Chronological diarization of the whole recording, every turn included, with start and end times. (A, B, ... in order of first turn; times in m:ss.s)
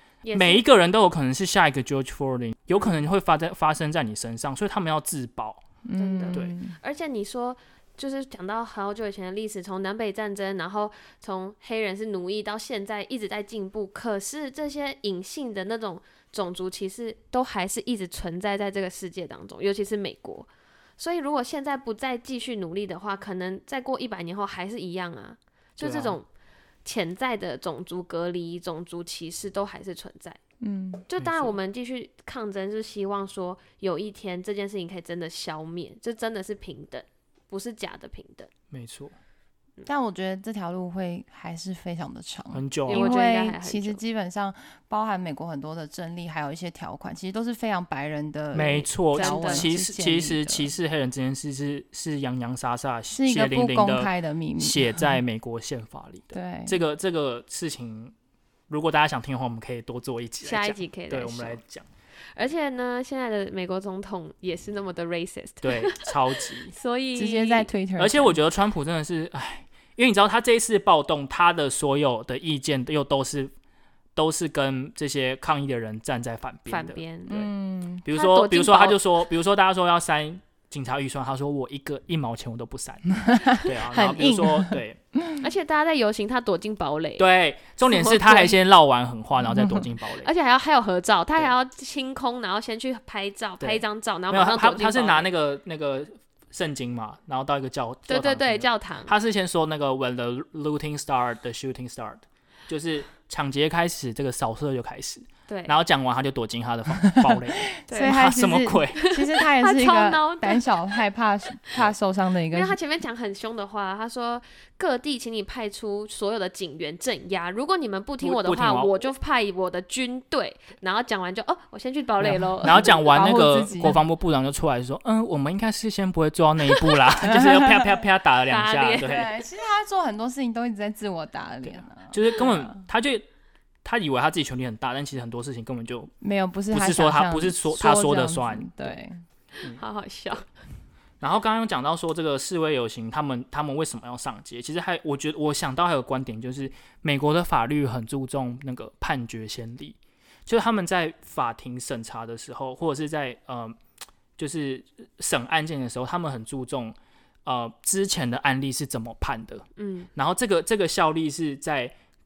0:00.2-0:00.6 A
0:00.3-0:05.6 B
0:05.8-0:06.8 C
0:06.0-0:26.3 A
0:25.8-0:26.2 B
0:26.8-0:30.4 A
0:30.6-0:31.0 C
0:31.1-0:38.5 A
0:31.2-0:31.6 B
0:38.7-0:39.2 B
0:39.8-0:50.7 C
0:42.5-0:43.1 B
0:42.9-0:44.0 A
0:48.5-0:58.1 B
0:49.1-0:49.7 A
0:53.1-0:55.2 C
0:56.3-0:56.8 C
0:58.7-1:01.8 B
1:00.4-1:01.6 A
1:02.4-1:07.7 A
1:05.6-1:06.7 B
1:07.2-1:08.4 C
1:08.0-1:13.5 B
1:14.2-1:17.5 B
1:16.7-1:17.4 A
1:17.3-1:18.1 C
1:18.0-1:25.0 B
1:18.1-1:19.3 A
1:23.3-1:25.4 C
1:25.4-1:27.3 A
1:27.2-1:30.3 B
1:27.8-1:28.6 A
1:29.4-1:29.9 C
1:30.2-1:35.3 A
1:33.6-1:49.0 B
1:38.1-1:39.1 A
1:45.5-1:45.8 A
1:47.8-1:52.8 C
1:47.9-1:48.2 A
1:49.0-1:51.0 A
1:52.5-2:03.9 A
1:58.2-1:59.0 B
2:02.3-2:04.0 C
2:02.6-2:09.3 B
2:08.5-2:09.3 A
2:09.0-2:12.8 C
2:12.0-2:13.2 B
2:13.8-2:16.1 B
2:16.2-2:19.2 C
2:16.7-2:19.0 B
2:19.6-2:20.5 A
2:21.2-2:33.8 B
2:34.4-2:37.0 B
2:37.5-2:39.6 B
2:39.8-2:40.1 A
2:40.2-2:41.9 B